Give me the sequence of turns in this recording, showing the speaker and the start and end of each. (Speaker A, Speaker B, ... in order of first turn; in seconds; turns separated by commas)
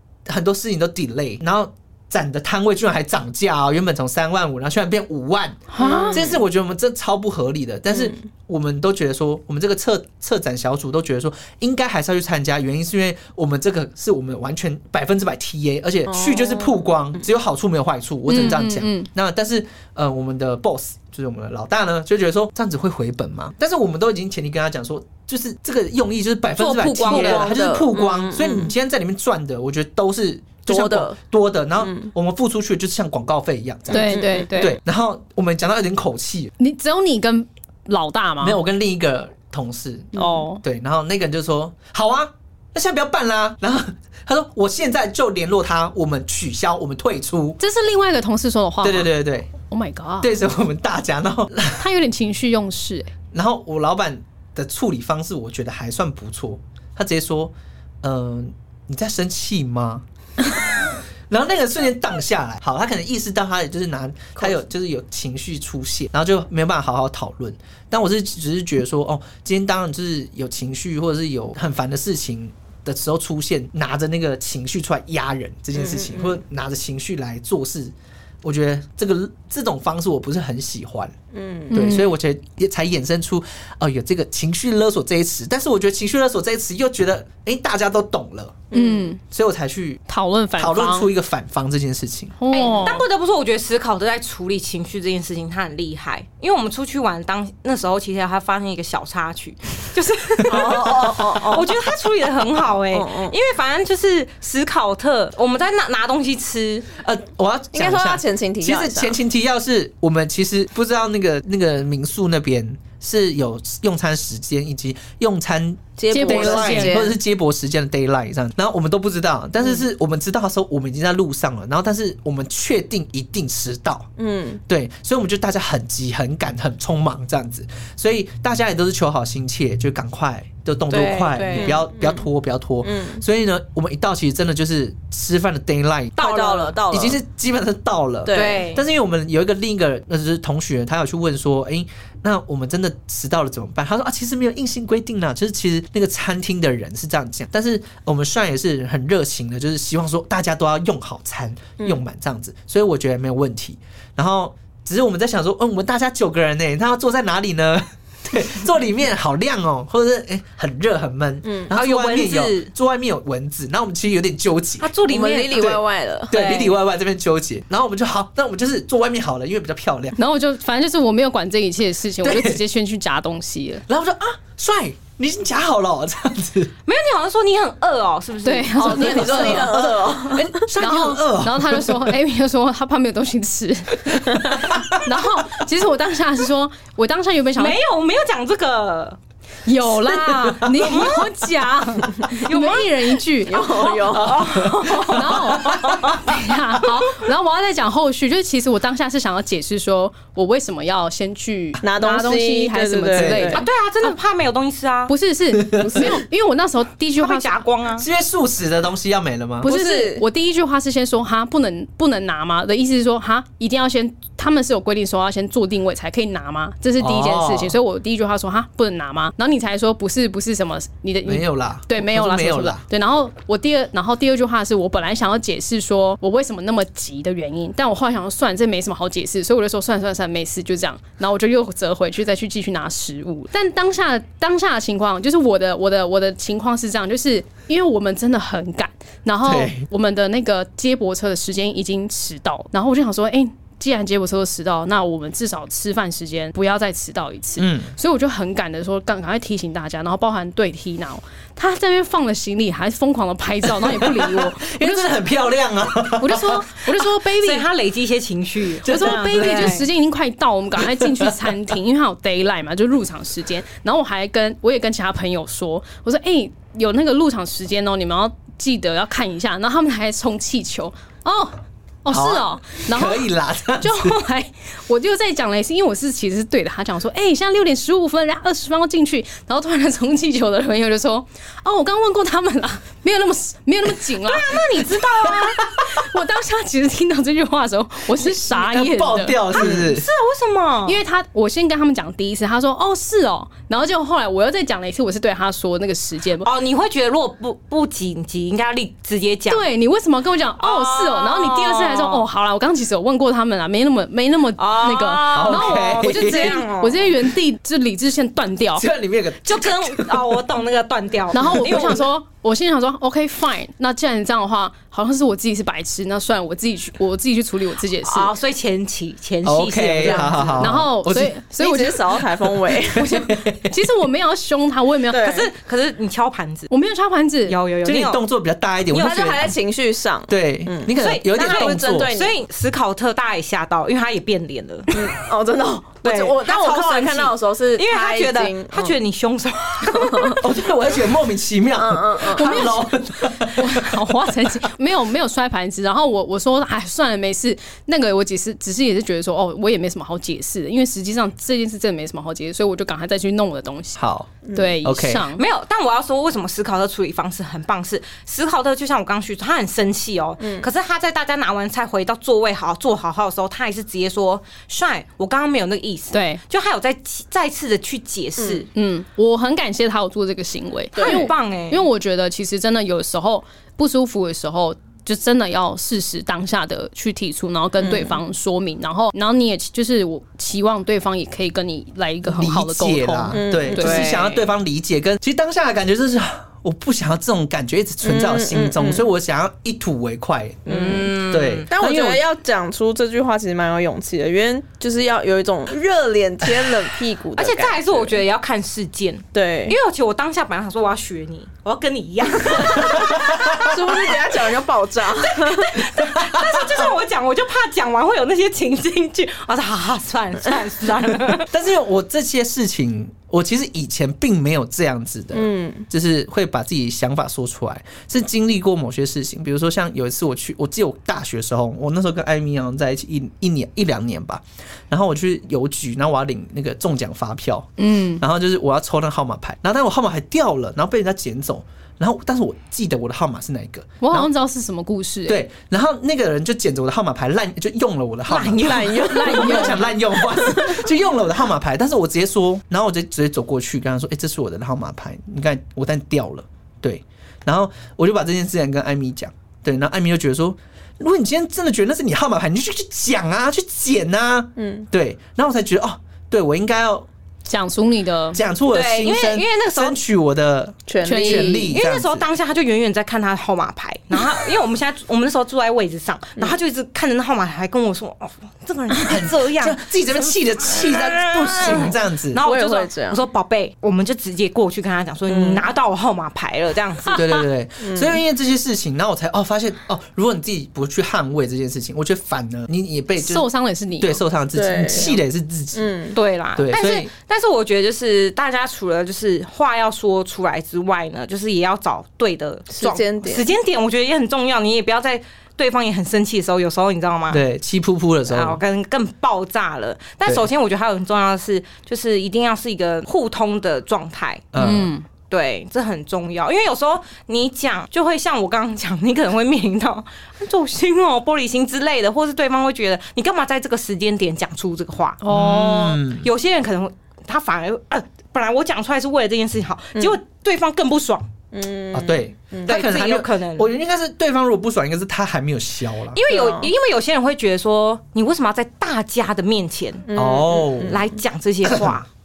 Speaker A: 0.3-36.5, Speaker B: 5.7-6.3, Speaker C: 5.8-6.3, Speaker C: 16.1-16.8, Speaker B: 18.3-19.1, Speaker D: 26.6-27.5, Speaker C: 27.1-28.7, Speaker C: 30.7-31.2, Speaker C: 31.8-32.1, Speaker B: 33.9-34.8, Speaker C: 33.9-34.5, Speaker B: 36.6-38.6, Speaker A: 38.4-47.6, Speaker B: 40.1-40.6, Speaker C: 40.2-40.4, Speaker B: 47.6-50.4, Speaker A: 48.8-49.5, Speaker A: 50.2-51.8, Speaker B: 51.8-53.1, Speaker A: 53.3-81.2, Speaker C: 75.8-76.4, Speaker C: 81.3-81.7, Speaker B: 81.7-82.1, Speaker A: 81.7-88.6, Speaker C: 88.7-89.1, Speaker B: 88.7-89.2, Speaker A: 89.3-90.0, Speaker B: 90.1-91.1, Speaker A: 90.6-92.4, Speaker B: 92.4-93.0, Speaker D: 92.5-106.9, Speaker C: 100.5-101.8, Speaker A: 100.5-101.3, Speaker C: 102.9-103.3, Speaker A: 107.0-124.1, Speaker C: 107.7-109.2, Speaker C: 116.0-117.2, Speaker B: 116.1-117.0, Speaker C: 124.2-124.6, Speaker A: 124.7-136.3, Speaker C: 130.9-132.2, Speaker D: 130.9-131.8, Speaker C: 132.8-133.2, Speaker D: 136.2-136.8, Speaker C: 136.2-137.2, Speaker A: 136.9-164.9, Speaker C: 138.3-138.7, Speaker D: 138.3-138.8, Speaker C: 161.4-161.7, Speaker D: 161.7-162.7, Speaker D: 164.8-165.7, Speaker C: 165.1-166.7, Speaker A: 165.6-170.2, Speaker B: 170.2-173.8, Speaker A: 172.2-172.6, Speaker A: 173.9-176.7, Speaker D: 176.9-179.7, Speaker B: 178.4-179.8, Speaker C: 178.8-180.7, Speaker A: 179.2-182.2, Speaker B: 180.8-187.8, Speaker A: 184.1-185.2, Speaker D: 187.6-189.2, Speaker B: 189.7-194.0, Speaker A: 190.2-190.6, Speaker D: 190.7-191.3, Speaker D: 192.3-196.2, Speaker C: 193.5-194.6, Speaker A: 194.2-196.2, Speaker B: 195.0-203.7, Speaker C: 201.8-203.6, Speaker A: 203.2-203.6, Speaker D: 203.5-205.2, Speaker B: 205.1-207.5, Speaker A: 205.6-206.1, Speaker C: 205.8-206.1, Speaker D: 207.2-208.1, Speaker A: 208.0-209.7, Speaker C: 209.6-210.2, Speaker B: 209.6-255.1, Speaker A: 217.0-217.8, Speaker A: 221.3-222.8, Speaker A: 239.4-239.8, Speaker A: 247.6-247.9, Speaker A: 253.6-256.8, Speaker B: 256.2-257.7, Speaker D: 257.3-259.9, Speaker A: 258.8-259.9, Speaker B: 258.9-284.6, Speaker A: 260.8-261.3, Speaker A: 272.1-274.2, Speaker D: 284.2-285.6, Speaker A: 285.5-285.8, Speaker B: 285.9-289.4, Speaker A: 288.1-290.1, Speaker D: 289.5-291.0, Speaker B: 290.9-296.5, Speaker D: 296.4-299.6, Speaker B: 299.5-308.9, Speaker D: 300.6-302.2, Speaker D: 304.6-307.2, Speaker A: 305.3-306.6, Speaker A: 308.8-310.4, Speaker D: 309.4-312.1, Speaker B: 311.3-318.3, Speaker D: 318.0-320.6, Speaker A: 319.4-321.4, Speaker C: 320.0-320.8, Speaker B: 320.6-322.2, Speaker C: 321.6-323.3, Speaker B: 322.8-325.2, Speaker A: 323.1-323.7, Speaker C: 325.1-325.5, Speaker D: 325.1-326.7, Speaker B: 326.7-327.6, Speaker D: 327.5-328.2, Speaker A: 327.8-329.5, Speaker C: 328.9-332.3, Speaker A: 330.3-332.2, Speaker D: 331.0-334.9, Speaker C: 334.9-339.0, Speaker D: 336.0-340.5, Speaker C: 339.9-340.4, Speaker A: 340.4-344.1, Speaker C: 341.7-342.7, Speaker B: 342.3-342.9, Speaker B: 343.4-354.0, Speaker A: 354.0-355.3, Speaker B: 354.5-355.4, Speaker D: 355.4-368.7, Speaker C: 360.4-360.7, Speaker B: 366.1-366.4, Speaker C: 368.4-368.6, Speaker B: 368.8-384.1, Speaker C: 370.9-371.3, Speaker D: 370.9-371.9, Speaker C: 377.8-378.2, Speaker A: 382.3-392.2, Speaker C: 383.3-384.3, Speaker C: 388.0-389.1, Speaker D: 390.7-391.7, Speaker C: 390.7-391.1, Speaker C: 391.7-398.2, Speaker D: 397.4-404.6, Speaker C: 399.3-399.8, Speaker A: 403.1-403.6, Speaker C: 403.4-405.9, Speaker D: 405.1-411.5, Speaker A: 405.9-406.9, Speaker A: 411.4-434.3, Speaker C: 415.3-415.9, Speaker B: 427.8-428.2, Speaker B: 434.0-435.4, Speaker A: 435.3-457.1, Speaker D: 438.3-439.7, Speaker C: 438.4-440.9, Speaker B: 439.1-439.8, Speaker C: 454.6-454.9, Speaker B: 457.4-458.4, Speaker A: 458.3-462.3, Speaker D: 458.7-460.0, Speaker C: 460.9-461.7, Speaker B: 461.0-461.7, Speaker D: 461.7-469.8, Speaker A: 469.0-472.4, Speaker D: 470.6-477.2, Speaker C: 472.4-473.2, Speaker C: 475.3-475.6, Speaker A: 477.1-483.4, Speaker C: 477.8-478.2, Speaker B: 483.2-484.2, Speaker A: 484.0-485.9, Speaker C: 484.5-485.2, Speaker C: 485.7-486.2, Speaker D: 486.1-497.4, Speaker A: 486.6-487.1, Speaker C: 492.7-493.5, Speaker A: 497.3-498.6, Speaker D: 498.3-504.5, Speaker A: 504.5-504.9, Speaker B: 504.6-505.1, Speaker D: 505.3-521.3, Speaker B: 515.2-516.0, Speaker A: 515.3-516.3, Speaker C: 521.5-522.7, Speaker A: 521.9-526.2, Speaker D: 522.7-523.7, Speaker D: 526.1-530.1, Speaker C: 526.3-526.7, Speaker C: 530.1-531.0, Speaker A: 530.1-531.0, Speaker D: 530.9-532.1, Speaker A: 531.6-532.0